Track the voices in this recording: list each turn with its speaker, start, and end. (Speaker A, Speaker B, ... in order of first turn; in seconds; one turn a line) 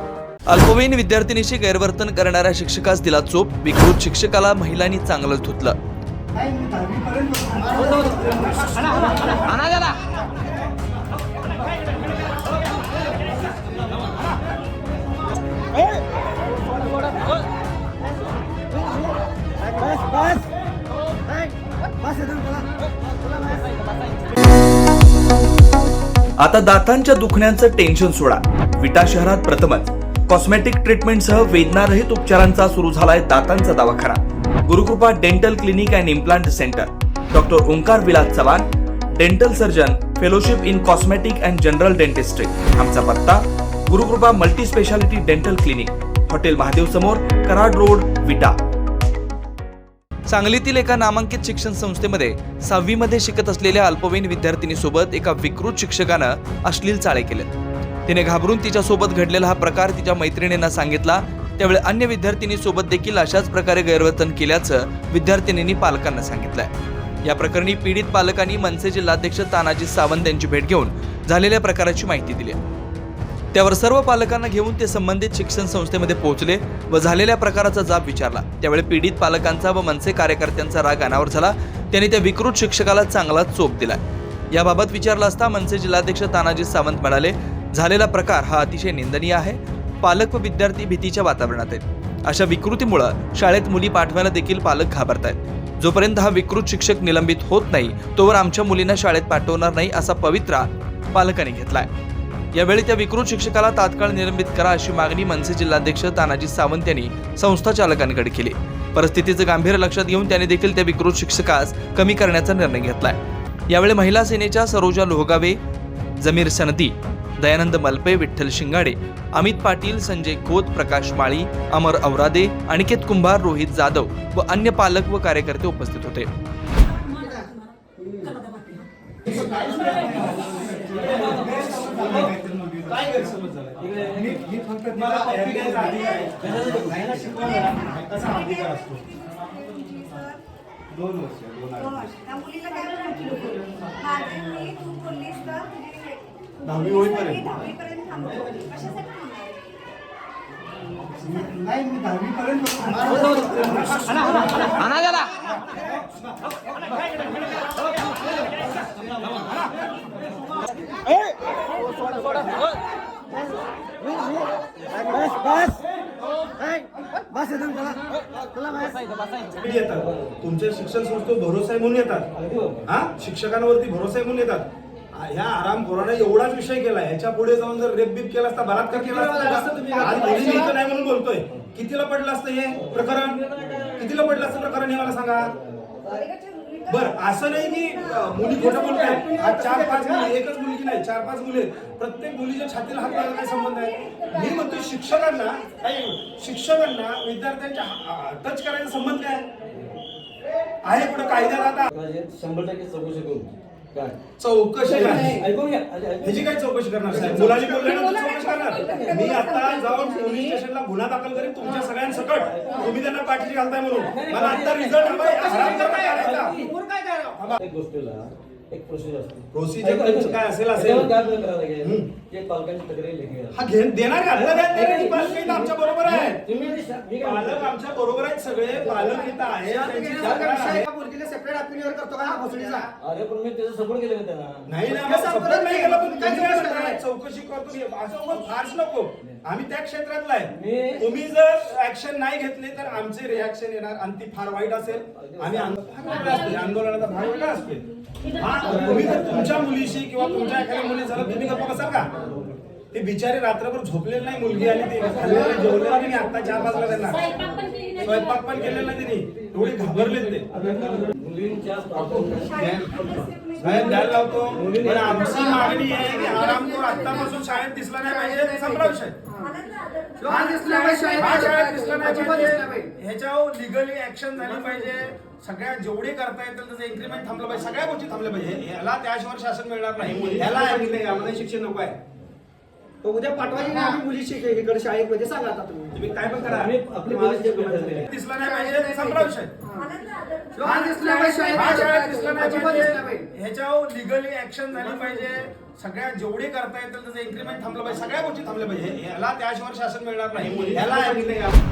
Speaker A: 0.5-5.8
Speaker B: 6.3-9.4
Speaker A: 26.4-48.6
Speaker A: 50.3-57.5
Speaker A: 58.1-66.7
Speaker A: 67.2-72.6
Speaker A: 73.5-84.0
Speaker A: 84.5-101.9
Speaker A: 102.5-113.2
Speaker A: 113.7-115.6
Speaker A: 116.2-126.3
Speaker C: 129.3-139.2
Speaker D: 129.4-132.3
Speaker D: 133.8-137.8
Speaker E: 139.3-140.3
Speaker C: 140.9-142.4
Speaker E: 142.5-143.4
Speaker E: 144.2-146.1
Speaker C: 146.6-148.5
Speaker E: 148.8-149.5
Speaker B: 151.2-154.7
Speaker C: 153.4-154.8
Speaker D: 165.3-165.8
Speaker D: 167.6-167.9
Speaker D: 168.7-169.0
Speaker C: 169.5-172.3
Speaker D: 172.4-172.9
Speaker C: 172.8-185.6
Speaker B: 178.9-180.7
Speaker D: 183.5-184.0
Speaker C: 186.9-199.5
Speaker B: 188.6-190.3
Speaker C: 200.8-201.9
Speaker D: 201.9-204.2
Speaker C: 204.4-205.4
Speaker D: 204.8-206.5
Speaker C: 206.2-216.6
Speaker B: 207.1-208.0
Speaker E: 208.2-210.1
Speaker D: 212.5-212.9
Speaker D: 214.1-216.8
Speaker B: 216.7-217.3
Speaker D: 217.6-223.6
Speaker C: 219.5-221.2
Speaker C: 221.8-222.1
Speaker C: 223.5-226.4
Speaker D: 224.5-227.7
Speaker C: 227.2-230.9
Speaker B: 229.6-232.9
Speaker D: 230.2-230.6
Speaker D: 233.0-234.7
Speaker C: 234.7-252.1
Speaker B: 234.9-237.0
Speaker D: 240.5-241.0
Speaker D: 245.3-246.2
Speaker D: 248.6-249.6
Speaker C: 252.9-260.5
Speaker D: 255.0-255.8
Speaker D: 260.5-265.9
Speaker C: 262.5-263.0
Speaker C: 263.6-269.3
Speaker E: 269.4-270.4
Speaker B: 270.2-271.3
Speaker C: 270.3-282.0
Speaker B: 272.1-272.9
Speaker B: 280.3-280.9
Speaker B: 283.0-286.0
Speaker C: 285.9-289.6
Speaker D: 286.4-288.1
Speaker E: 290.0-290.5
Speaker B: 290.6-291.6
Speaker C: 290.6-301.6